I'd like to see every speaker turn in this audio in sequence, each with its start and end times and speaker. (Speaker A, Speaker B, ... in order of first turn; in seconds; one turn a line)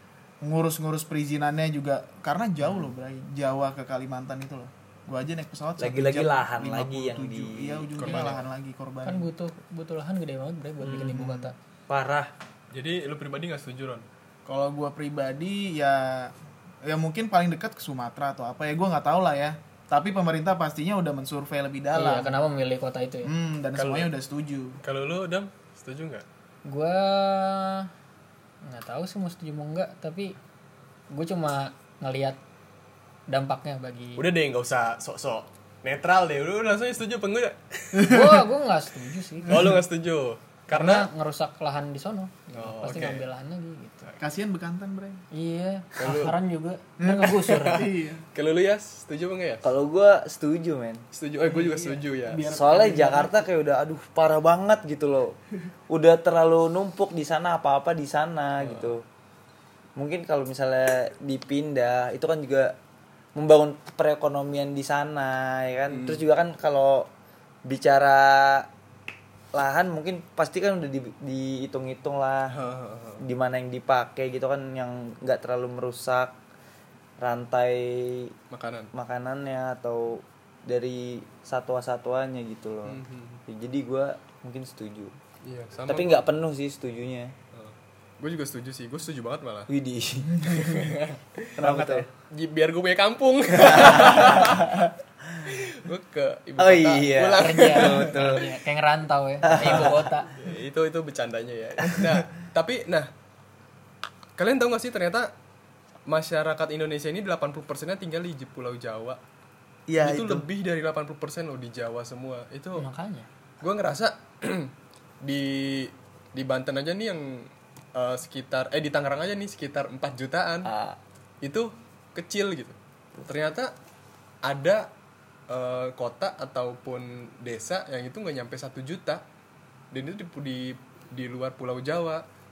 Speaker A: 0.4-9.3
Speaker B: 2.6-2.9
Speaker B: 5.8-8.2
Speaker C: 8.0-8.4
Speaker D: 9.0-11.5
Speaker B: 10.8-12.3
Speaker A: 11.1-11.5
Speaker C: 12.7-14.1
Speaker A: 14.4-22.3
Speaker D: 21.9-23.3
Speaker A: 23.2-24.8
Speaker C: 23.8-24.1
Speaker C: 24.8-26.2
Speaker D: 26.6-27.9
Speaker D: 28.6-30.3
Speaker D: 31.1-32.4
Speaker D: 33.3-34.2
Speaker C: 34.2-38.2
Speaker A: 37.9-38.4
Speaker D: 38.0-39.7
Speaker C: 39.4-41.1
Speaker A: 39.5-39.8
Speaker D: 40.7-44.1
Speaker C: 42.5-43.2
Speaker A: 44.2-45.2
Speaker D: 45.3-47.9
Speaker C: 46.0-46.3
Speaker A: 47.0-48.2
Speaker C: 47.5-49.6
Speaker B: 49.6-51.0
Speaker C: 51.1-52.5
Speaker A: 51.4-53.4
Speaker B: 52.5-55.3
Speaker B: 55.9-59.0
Speaker C: 58.6-58.9
Speaker B: 60.0-62.7
Speaker B: 63.3-67.1
Speaker C: 65.9-66.2
Speaker B: 67.6-68.7
Speaker B: 69.5-72.5
Speaker C: 72.5-73.2
Speaker B: 73.2-76.3
Speaker B: 77.2-78.3
Speaker C: 78.5-78.9
Speaker B: 78.9-85.2
Speaker C: 82.8-83.4
Speaker C: 85.4-86.3
Speaker B: 85.9-87.3
Speaker C: 87.5-89.7
Speaker B: 89.7-91.0
Speaker A: 90.3-90.9
Speaker A: 91.6-92.1
Speaker B: 91.6-92.1
Speaker C: 92.3-94.9
Speaker B: 93.5-94.6
Speaker C: 95.4-98.2
Speaker B: 96.6-98.5
Speaker D: 97.4-100.3
Speaker B: 99.4-100.1
Speaker C: 99.6-103.1
Speaker C: 104.4-105.3
Speaker C: 106.1-109.2
Speaker B: 109.9-110.5
Speaker C: 110.0-112.8
Speaker D: 112.8-113.3
Speaker C: 113.6-120.7
Speaker B: 120.6-121.0
Speaker C: 121.4-123.7
Speaker C: 124.4-124.9
Speaker C: 125.5-129.2
Speaker C: 129.9-132.2